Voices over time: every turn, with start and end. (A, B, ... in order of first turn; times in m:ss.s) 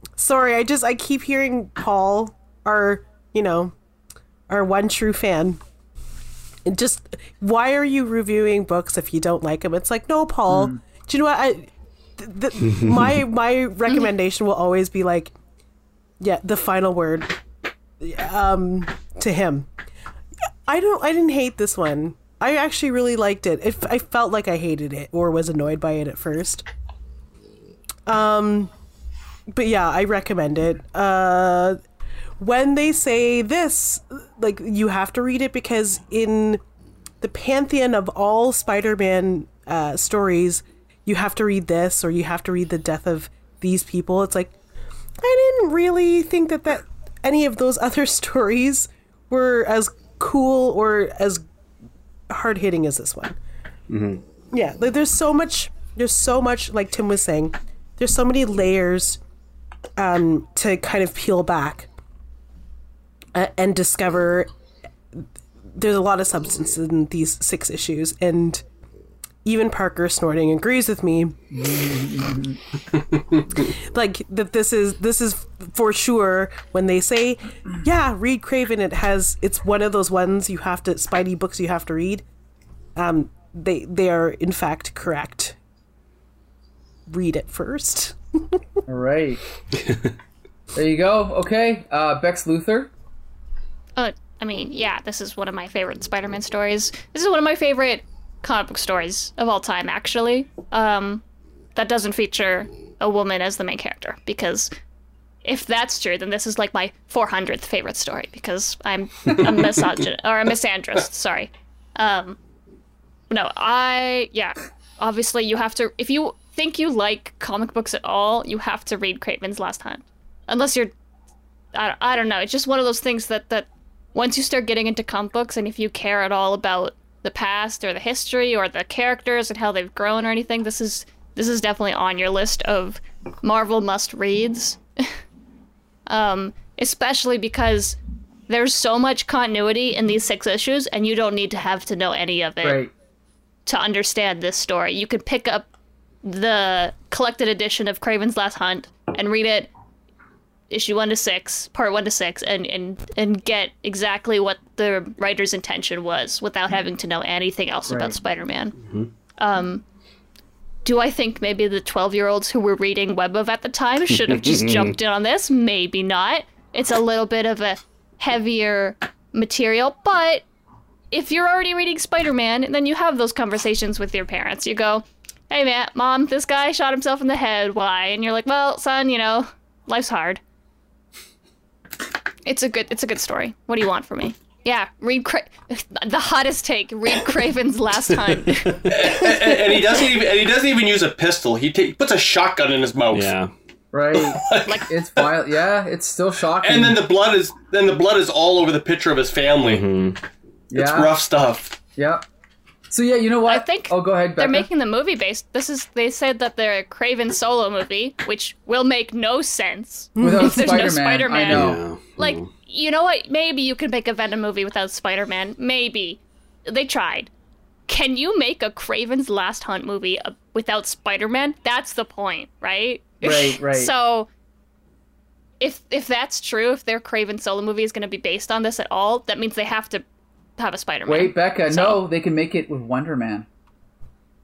0:00.2-0:03.7 A
0:04.5-0:05.6 A
0:06.6-0:15.3 A
0:10.5-0:10.8 B
0:12.7-0:13.1 C
0:16.2-0:17.4 A
0:18.0-0:19.7 A
0:20.7-0:26.6 A
0:28.1-0:28.7 A
0:29.5-0:31.8 A
0:32.4-0:36.6 A
0:37.2-0:44.5 A
0:45.2-0:51.4 A
0:52.3-0:53.4 A
0:53.9-0:54.2 C
0:54.5-0:59.2 A
1:00.0-1:01.9 A
1:03.3-1:04.5 A
1:05.1-1:08.6 A
1:09.4-1:11.4 A
1:11.5-1:12.6 B
1:13.4-1:13.7 D
1:13.6-1:22.2 A
1:23.0-1:25.6 A
1:27.1-1:28.6 A
1:28.9-1:29.4 B
1:29.7-1:30.2 C
1:30.8-1:32.9 B
1:34.0-1:41.2 E
1:41.8-1:44.7 E
1:45.4-1:52.4 E
1:53.3-2:00.9 E
2:01.7-2:15.2 E
2:16.1-2:18.0 E
2:18.5-2:22.8 E
2:22.6-2:22.9 B
2:23.7-2:25.7 E
2:26.2-2:29.7 E
2:30.7-2:38.8 E
2:37.9-2:38.2 B
2:38.8-2:39.1 C
2:39.4-2:39.8 E
2:40.8-2:50.4 E
2:44.2-2:44.9 C
2:51.1-3:00.4 E
3:02.5-3:08.8 E
3:08.5-3:09.1 C
3:08.9-3:13.3 D
3:13.1-3:13.5 C
3:13.9-3:17.0 B
3:14.2-3:15.2 D
3:16.6-3:19.8 D
3:19.6-3:20.2 C
3:20.7-3:21.1 B
3:20.8-3:21.8 D
3:22.0-3:22.3 B
3:22.9-3:24.7 B
3:23.5-3:37.3 E
3:30.2-3:30.9 A
3:30.2-3:31.8 B
3:31.5-3:32.5 C
3:37.9-3:44.3 E
3:43.2-3:43.9 B
3:45.6-3:50.0 E
3:50.6-3:52.0 E
3:51.1-3:53.5 B